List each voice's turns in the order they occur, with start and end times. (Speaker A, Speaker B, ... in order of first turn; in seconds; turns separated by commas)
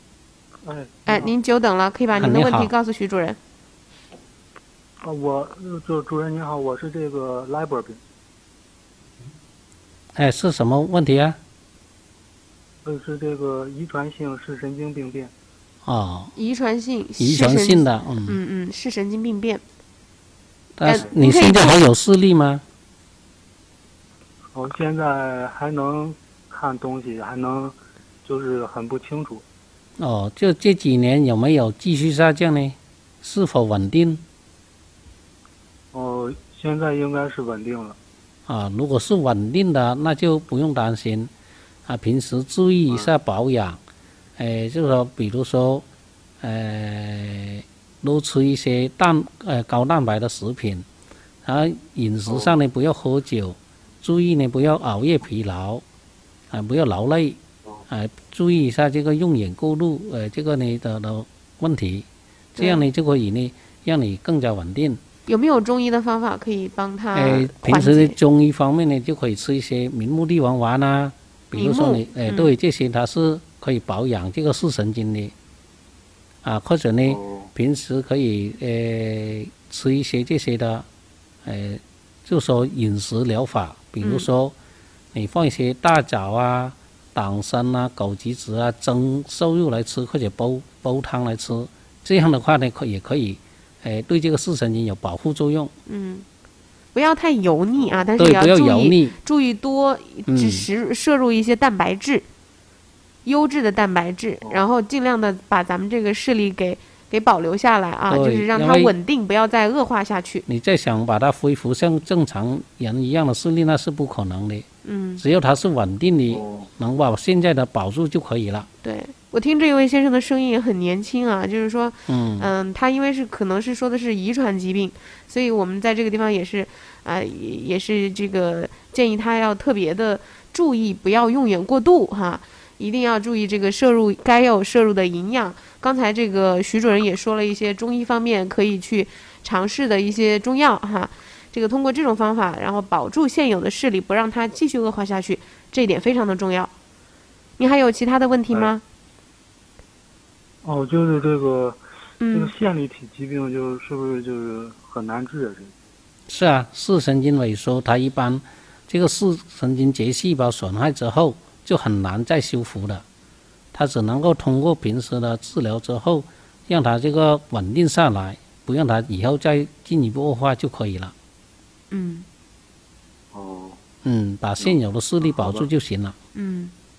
Speaker A: 0.6-1.3, Speaker B: 1.1-3.4, Speaker C: 2.2-2.7, Speaker A: 5.0-8.0, Speaker C: 10.2-11.4, Speaker A: 12.8-15.3, Speaker C: 15.8-16.3, Speaker B: 16.3-19.6, Speaker C: 17.2-18.4, Speaker C: 20.8-22.6, Speaker B: 20.8-21.8, Speaker A: 24.5-29.4, Speaker C: 30.0-34.2, Speaker A: 35.9-38.0, Speaker C: 38.5-41.3, Speaker C: 41.9-43.8, Speaker C: 44.4-45.8, Speaker C: 46.4-50.8, Speaker C: 51.4-55.8, Speaker A: 52.3-52.5, Speaker C: 56.5-57.4, Speaker C: 57.9-65.0, Speaker B: 62.6-62.9, Speaker B: 65.3-68.2, Speaker C: 67.1-75.3, Speaker B: 71.5-72.5, Speaker C: 76.4-80.8, Speaker A: 77.1-77.5, Speaker C: 81.4-84.5, Speaker B: 84.0-84.3, Speaker C: 85.1-95.7, Speaker B: 95.8-96.2, Speaker B: 96.9-102.2, Speaker A: 97.8-98.0, Speaker C: 98.2-99.2, Speaker C: 100.3-100.7, Speaker B: 103.2-110.5, Speaker C: 108.1-108.9, Speaker C: 110.5-114.7, Speaker B: 114.8-115.2, Speaker C: 115.2-118.7, Speaker A: 116.4-116.6, Speaker B: 118.8-146.7, Speaker C: 122.1-122.5, Speaker B: 147.6-148.8, Speaker A: 150.6-151.8, Speaker B: 152.2-152.5, Speaker A: 152.3-155.7, Speaker C: 156.3-163.0, Speaker C: 163.7-171.1, Speaker B: 171.9-172.2, Speaker A: 173.3-173.8, Speaker C: 174.0-176.1, Speaker A: 174.6-175.7, Speaker B: 176.3-176.7